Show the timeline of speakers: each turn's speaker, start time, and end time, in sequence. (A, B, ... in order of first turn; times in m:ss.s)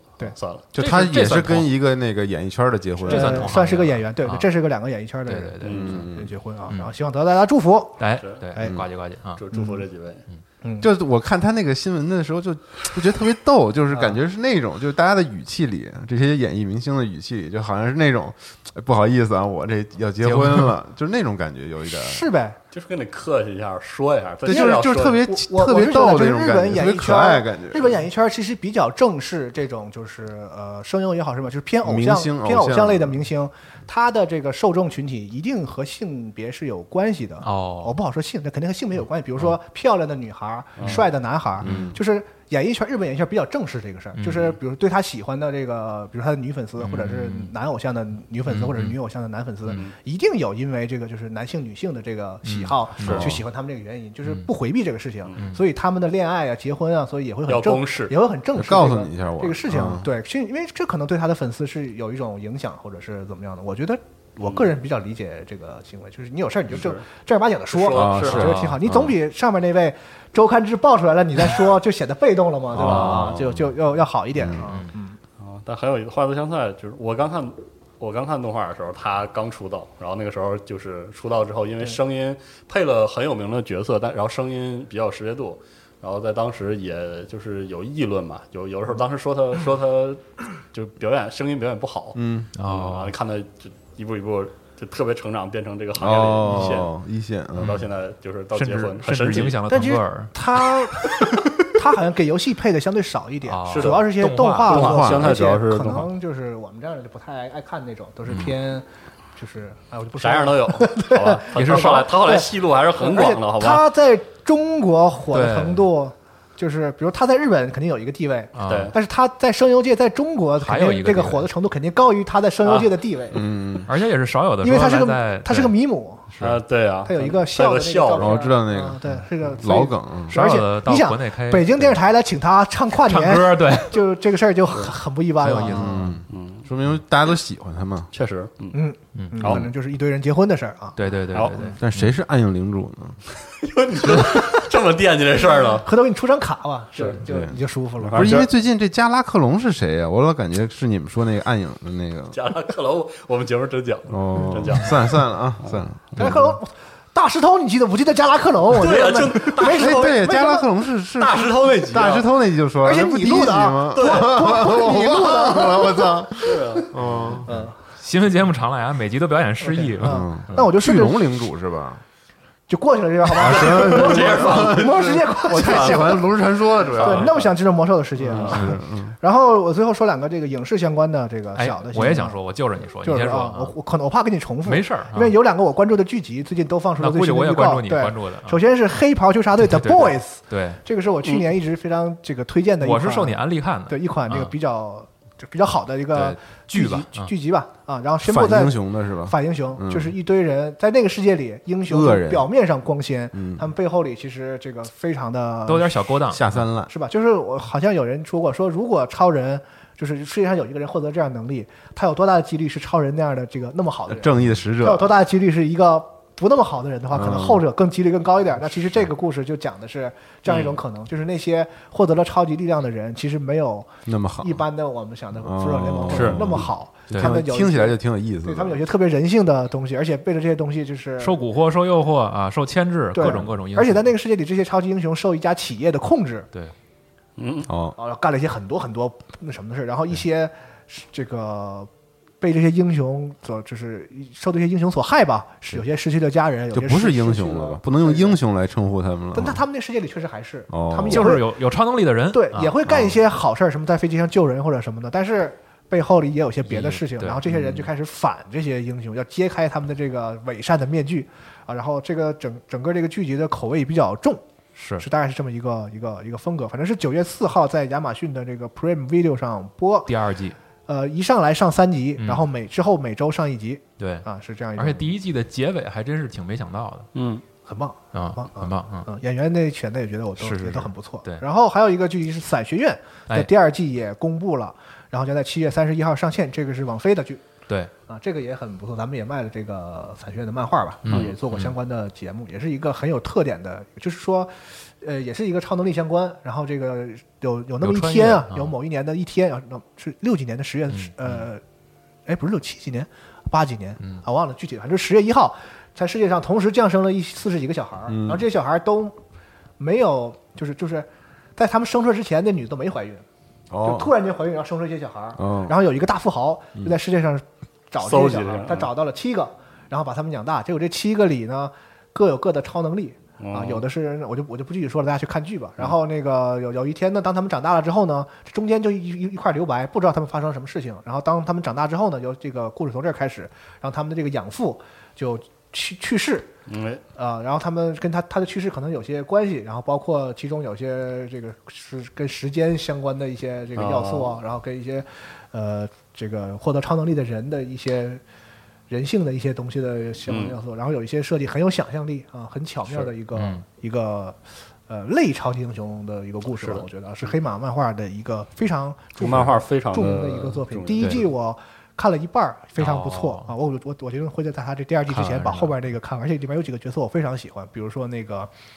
0:00.2-0:00.6 A
0:00.7-0:03.5 B
0:00.8-0:01.7 C
0:03.0-0:08.0 D
0:03.1-0:04.5 C
0:05.2-0:06.0 C
0:05.6-0:06.1 A
0:05.6-0:06.3 B
0:08.0-0:09.4 C
0:08.6-0:08.8 B
0:09.4-0:10.2 A
0:09.5-0:09.8 D
0:10.6-0:10.9 D
0:10.8-0:22.3 B
0:13.9-0:14.2 D
0:20.2-0:20.7 C
0:21.9-0:22.6 D
0:22.7-0:25.2 A
0:24.4-0:28.0 B
0:24.5-1:15.2 D
0:31.8-0:33.2 B
0:37.4-0:38.0 C
0:40.8-0:41.1 A
0:41.6-0:42.0 B
0:44.2-0:44.6 C
0:46.8-0:47.5 C
0:48.5-0:49.0 C
0:52.4-0:53.4 C
0:53.0-0:53.3 A
0:55.4-0:55.6 C
0:57.5-0:58.1 A
0:58.5-1:00.1 B
1:04.4-1:04.7 A
1:06.7-1:07.0 A
1:07.7-1:08.6 A
1:07.9-1:09.2 B
1:08.2-1:08.8 C
1:12.7-1:13.8 B
1:12.8-1:13.4 C
1:14.4-1:14.7 B
1:14.6-1:14.9 C
1:15.4-1:36.9 A
1:32.1-1:32.5 B
1:32.5-1:33.1 C
1:36.0-1:37.7 B
1:37.6-1:37.8 C
1:37.6-1:39.6 A
1:38.5-1:40.3 C
1:39.7-2:03.4 D
1:43.4-1:44.9 C
1:43.7-1:44.1 A
1:44.6-1:46.1 A
1:44.7-1:45.4 B
1:48.3-1:48.5 C
1:50.2-1:53.9 A
1:51.5-1:52.0 C
1:55.3-1:55.8 C
1:58.5-1:58.9 C
1:58.7-1:58.9 A
2:00.6-2:01.5 C
2:02.6-2:03.0 A
2:03.3-2:03.9 B
2:03.8-2:05.7 C
2:04.6-2:06.3 D
2:06.4-2:08.5 A
2:07.0-2:16.2 D
2:08.2-2:10.4 B
2:10.3-2:12.0 C
2:13.0-2:14.0 C
2:15.4-2:16.1 C
2:15.6-2:18.1 B
2:16.3-2:16.7 A
2:18.1-2:18.8 A
2:18.7-2:21.0 D
2:19.1-2:19.5 C
2:19.4-2:19.7 A
2:21.0-2:22.1 C
2:21.3-2:21.6 A
2:21.8-2:23.2 B
2:23.4-2:25.9 A
2:25.4-2:28.4 D
2:26.9-2:27.2 A
2:27.2-2:27.6 B
2:28.0-2:28.5 A
2:28.1-2:32.4 B
2:32.3-2:35.8 A
2:34.1-2:36.6 B
2:36.2-2:40.6 D
2:38.7-2:40.3 A
2:39.6-2:47.6 B
2:41.2-2:42.3 A
2:42.8-2:46.8 D
2:43.9-2:44.4 A
2:46.4-2:47.4 A
2:47.4-2:47.7 D
2:48.0-2:50.6 C
2:49.6-2:51.4 D
2:50.0-2:52.0 B
2:52.7-2:56.2 D
2:53.3-2:57.5 B
2:53.5-2:56.2 A
2:57.0-3:02.4 D
2:57.0-2:57.3 A
2:58.2-2:59.1 B
2:58.3-2:58.6 A
3:01.6-3:03.7 C
3:03.0-3:26.1 D
3:04.6-3:05.3 C
3:07.0-3:08.6 C
3:09.6-3:10.8 C
3:12.8-3:14.5 C
3:16.1-3:17.3 C
3:18.2-3:20.1 B
3:21.9-3:22.5 B
3:23.3-3:23.7 B
3:25.7-3:26.7 C
3:26.3-3:26.9 B
3:26.9-3:51.4 D
3:34.1-3:35.1 B
3:37.1-3:37.6 B
3:40.5-3:40.8 A
3:44.0-3:44.6 B
3:45.4-3:48.8 B
3:46.1-3:46.6 A
3:51.2-3:54.1 C
3:53.1-3:56.5 D
3:57.4-3:57.7 A
3:57.7-3:58.0 B
3:58.0-4:08.4 D
4:06.7-4:09.6 B
4:09.3-4:11.5 D
4:10.7-4:11.3 B
4:11.1-4:12.8 C
4:12.3-4:24.4 D
4:12.9-4:13.2 B
4:16.6-4:17.4 C
4:17.5-4:17.8 B
4:24.7-4:25.1 C
4:25.0-4:30.1 D
4:30.1-4:30.6 C
4:30.9-4:35.1 D
4:32.2-4:32.4 C
4:34.0-4:37.1 C
4:37.1-4:37.4 A
4:37.6-4:47.4 D
4:38.1-4:39.1 C
4:40.4-4:41.4 C
4:48.1-5:01.6 D
4:51.0-4:51.7 C
4:51.1-4:51.3 A
4:57.8-4:58.7 C
5:00.9-5:01.5 C
5:02.3-5:09.2 D
5:08.1-5:08.4 B
5:09.8-5:13.2 D
5:13.7-5:14.1 B
5:13.8-5:36.5 D
5:15.4-5:15.8 B
5:18.0-5:18.9 A
5:23.4-5:23.8 A
5:36.7-5:37.0 A
5:37.2-5:48.2 D
5:43.8-5:44.4 A
5:48.9-6:08.5 D
5:50.3-5:50.6 A
5:52.9-5:53.1 A
5:53.3-5:53.6 C
5:56.4-5:56.9 A
5:59.2-6:01.3 A
6:02.8-6:03.5 C
6:05.1-6:05.7 C